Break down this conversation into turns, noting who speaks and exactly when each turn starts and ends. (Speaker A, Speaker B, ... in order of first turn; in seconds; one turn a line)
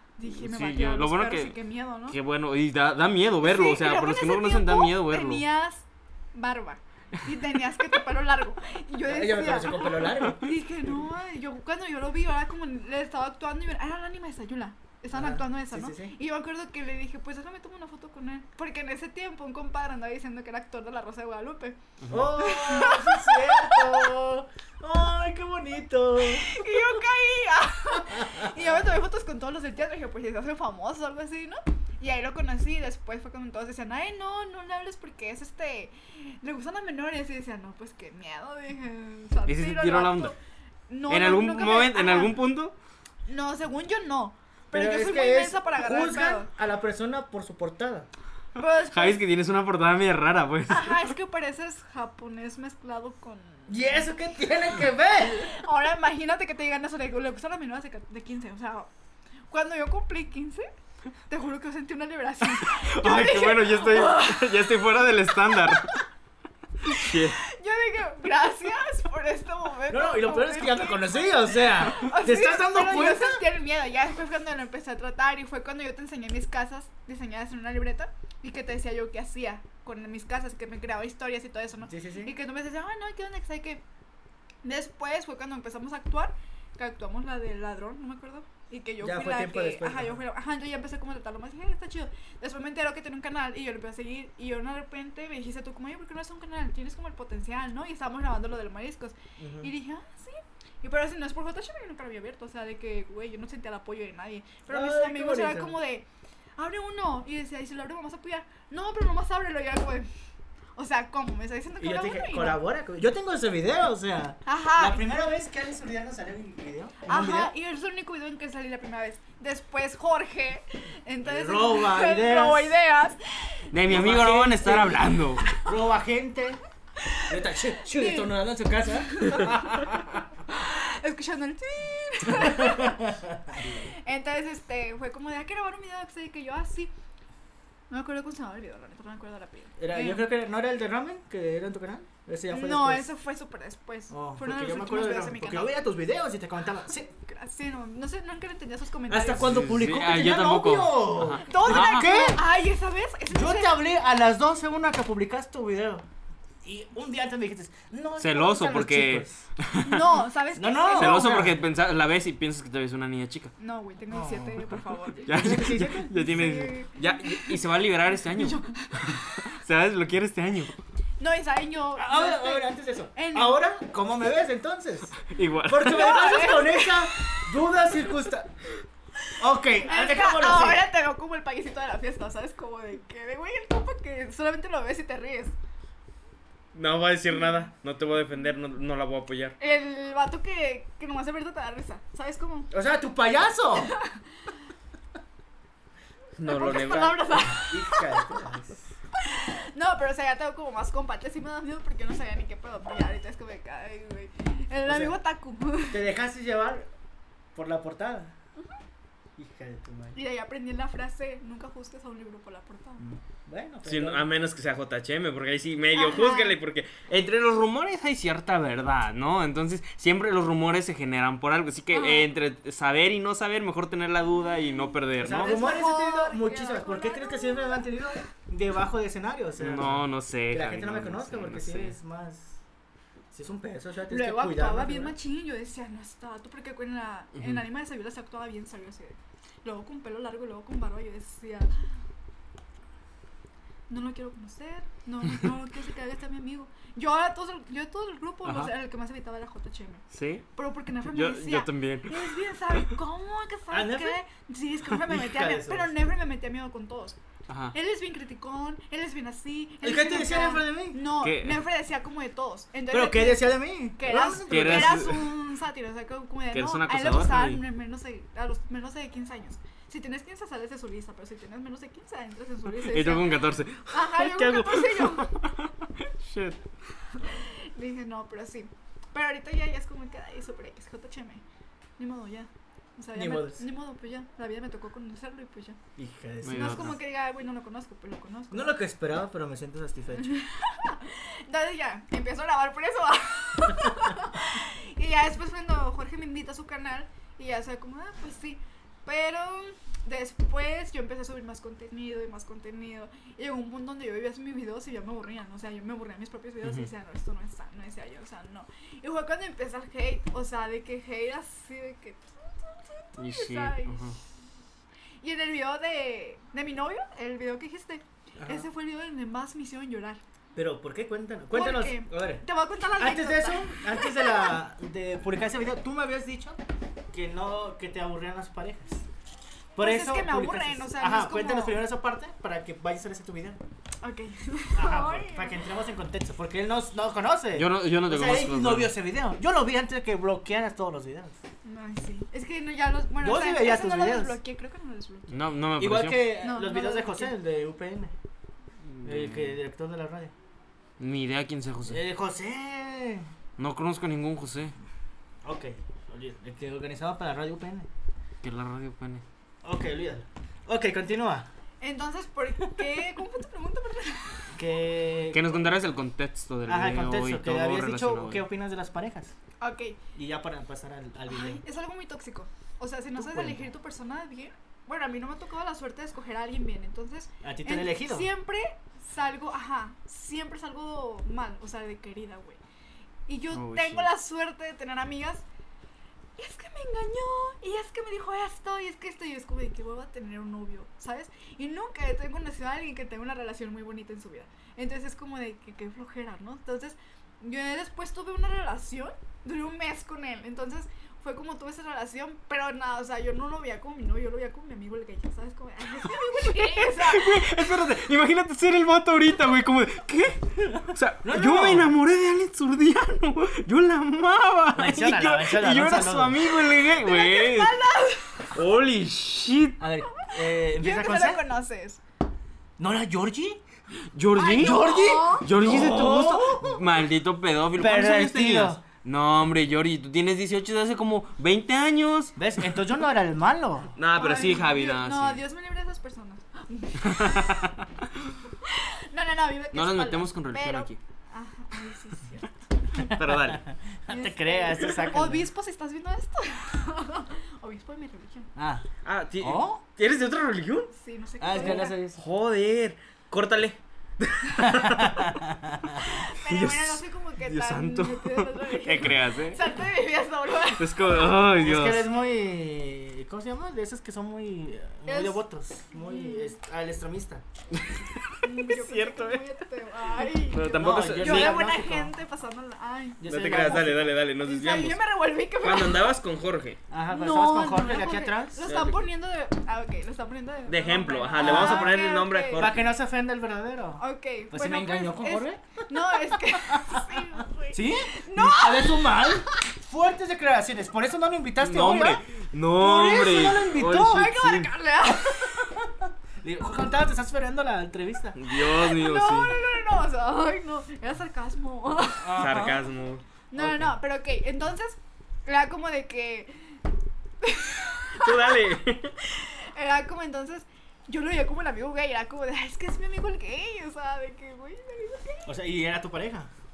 Speaker A: 0.2-2.2
Speaker B: 0.3-1.6
Speaker B: 2.1-5.5
Speaker A: 3.4-21.8
Speaker C: 9.0-10.9
Speaker C: 15.1-16.1
Speaker C: 22.1-26.7
Speaker A: 22.4-24.1
Speaker A: 26.3-40.4
Speaker C: 28.0-28.8
Speaker B: 39.5-40.3
Speaker A: 40.9-42.4
Speaker B: 41.1-42.8
Speaker A: 43.3-46.5
Speaker C: 44.7-48.1
Speaker A: 48.6-49.2
Speaker B: 48.8-51.1
Speaker A: 50.7-54.1
Speaker C: 53.7-55.6
Speaker A: 55.4-58.9
Speaker A: 59.5-60.7
Speaker A: 61.3-65.8
Speaker B: 62.6-65.9
Speaker B: 66.8-67.4
Speaker A: 67.4-83.8
Speaker C: 69.9-73.4
Speaker C: 81.8-82.3
Speaker A: 84.6-106.1
Speaker C: 89.0-90.2
Speaker C: 99.4-99.7
Speaker C: 104.7-105.8
Speaker A: 106.6-110.1
Speaker A: 110.8-112.6
Speaker C: 111.8-117.5
Speaker A: 114.5-115.0
Speaker A: 117.1-123.7
Speaker C: 121.2-122.7
Speaker B: 123.7-125.5
Speaker C: 123.8-126.6
Speaker C: 127.3-130.2
Speaker A: 127.9-128.3
Speaker A: 128.9-133.0
Speaker C: 132.2-133.6
Speaker B: 133.6-133.9
Speaker A: 133.9-136.9
Speaker A: 137.9-140.2
Speaker C: 139.8-143.1
Speaker A: 142.5-145.8
Speaker C: 144.1-147.1
Speaker A: 147.2-149.6
Speaker C: 149.1-152.4
Speaker B: 149.4-152.3
Speaker A: 151.4-153.8
Speaker C: 153.3-156.0
Speaker C: 156.6-159.4
Speaker B: 158.2-160.2
Speaker A: 159.8-161.3
Speaker C: 160.5-161.6
Speaker B: 160.9-163.5
Speaker A: 163.6-167.6
Speaker C: 164.1-164.7
Speaker C: 165.2-166.2
Speaker B: 165.3-170.8
Speaker A: 168.2-169.4
Speaker A: 171.2-173.6
Speaker C: 172.0-178.5
Speaker B: 175.3-176.1
Speaker A: 175.8-178.0
Speaker C: 179.4-180.8
Speaker A: 179.9-185.5
Speaker B: 186.7-189.6
Speaker A: 189.6-192.7
Speaker C: 192.7-193.9
Speaker A: 193.8-194.2
Speaker B: 196.4-197.2
Speaker A: 196.5-198.3
Speaker C: 197.4-198.9
Speaker A: 199.2-206.0
Speaker C: 204.8-205.2
Speaker C: 205.9-206.9
Speaker C: 207.5-208.3
Speaker C: 209.4-210.2
Speaker A: 210.1-213.0
Speaker C: 213.0-214.3
Speaker B: 213.8-225.6
Speaker A: 215.9-216.6
Speaker A: 221.9-222.3
Speaker C: 225.2-232.6
Speaker A: 225.3-228.1
Speaker B: 229.6-231.9
Speaker C: 233.3-235.1
Speaker A: 234.1-241.7
Speaker B: 237.4-237.7
Speaker A: 243.9-250.0
Speaker B: 248.4-248.7
Speaker B: 250.1-250.5
Speaker A: 250.6-257.2
Speaker B: 251.0-252.9
Speaker C: 253.7-254.2
Speaker C: 254.9-255.9
Speaker B: 257.5-257.8
Speaker A: 257.7-275.3
Speaker C: 259.8-261.0
Speaker B: 261.2-261.6
Speaker C: 262.9-265.1
Speaker B: 264.5-265.4
Speaker B: 266.5-267.6
Speaker B: 272.7-276.6
Speaker A: 277.1-281.4
Speaker A: 282.0-285.8
Speaker C: 283.1-283.6
Speaker C: 286.0-287.0
Speaker B: 286.4-287.0
Speaker A: 286.5-288.8
Speaker C: 288.5-290.4
Speaker A: 290.1-314.1
Speaker B: 306.6-306.9
Speaker B: 313.2-314.2
Speaker A: 315.2-320.2
Speaker C: 320.6-322.4
Speaker A: 321.5-324.6
Speaker C: 323.0-326.6
Speaker C: 327.1-329.0
Speaker C: 329.8-333.6
Speaker A: 329.8-331.8
Speaker A: 334.0-335.6
Speaker C: 334.8-341.4
Speaker B: 337.5-338.9
Speaker A: 341.6-345.5
Speaker C: 343.2-344.4
Speaker B: 345.3-346.4
Speaker C: 345.8-348.1
Speaker A: 346.4-347.3
Speaker B: 348.9-349.6
Speaker C: 349.0-350.3
Speaker B: 351.0-352.0
Speaker C: 351.9-353.3
Speaker B: 353.6-354.8
Speaker C: 355.4-357.9
Speaker B: 358.4-359.2
Speaker C: 359.6-361.5
Speaker A: 361.8-364.4
Speaker C: 364.5-365.6
Speaker B: 365.3-368.4
Speaker C: 366.6-369.4
Speaker A: 369.6-370.0
Speaker C: 370.1-371.6
Speaker A: 371.3-382.6
Speaker C: 373.1-373.7
Speaker C: 377.4-378.3
Speaker A: 383.3-385.4
Speaker B: 383.5-384.1
Speaker A: 386.4-407.5
Speaker B: 406.5-417.8
Speaker C: 411.2-411.9
Speaker C: 414.7-416.4
Speaker A: 416.8-418.5
Speaker B: 418.5-419.8
Speaker C: 419.8-421.4
Speaker A: 420.8-422.0
Speaker C: 422.8-423.6
Speaker B: 424.1-432.4
Speaker A: 424.4-425.5
Speaker C: 424.6-426.8
Speaker C: 427.8-428.8
Speaker C: 432.4-433.9
Speaker B: 434.0-435.4
Speaker A: 434.1-437.7
Speaker B: 437.0-438.1
Speaker A: 438.6-443.1
Speaker B: 439.7-441.0
Speaker C: 443.0-445.5
Speaker B: 443.1-443.6
Speaker A: 444.1-448.5
Speaker C: 448.6-448.9
Speaker B: 449.0-450.9
Speaker C: 449.4-449.8
Speaker A: 450.9-452.0
Speaker C: 451.4-452.2
Speaker B: 451.5-455.4
Speaker C: 454.6-456.1
Speaker A: 456.0-461.0
Speaker B: 456.0-459.6
Speaker B: 460.8-462.1
Speaker C: 461.6-467.4
Speaker A: 465.1-466.5
Speaker B: 467.7-469.4
Speaker A: 468.4-473.9
Speaker B: 470.5-471.6
Speaker C: 470.6-472.1
Speaker C: 473.2-474.1
Speaker B: 473.2-475.0
Speaker A: 474.4-476.1
Speaker B: 475.6-476.8
Speaker C: 476.9-478.6
Speaker A: 477.1-482.7
Speaker B: 478.7-479.0
Speaker B: 480.7-482.8
Speaker C: 481.4-482.0
Speaker C: 482.5-492.2
Speaker A: 484.0-489.6
Speaker B: 491.6-494.7
Speaker C: 492.8-494.4
Speaker A: 493.8-495.7
Speaker C: 495.1-498.4
Speaker B: 498.4-499.6
Speaker A: 498.5-502.5
Speaker C: 502.2-502.8
Speaker B: 502.3-503.2
Speaker A: 503.5-506.8
Speaker C: 503.6-503.9
Speaker A: 507.4-515.5
Speaker B: 508.1-509.1
Speaker C: 515.5-516.5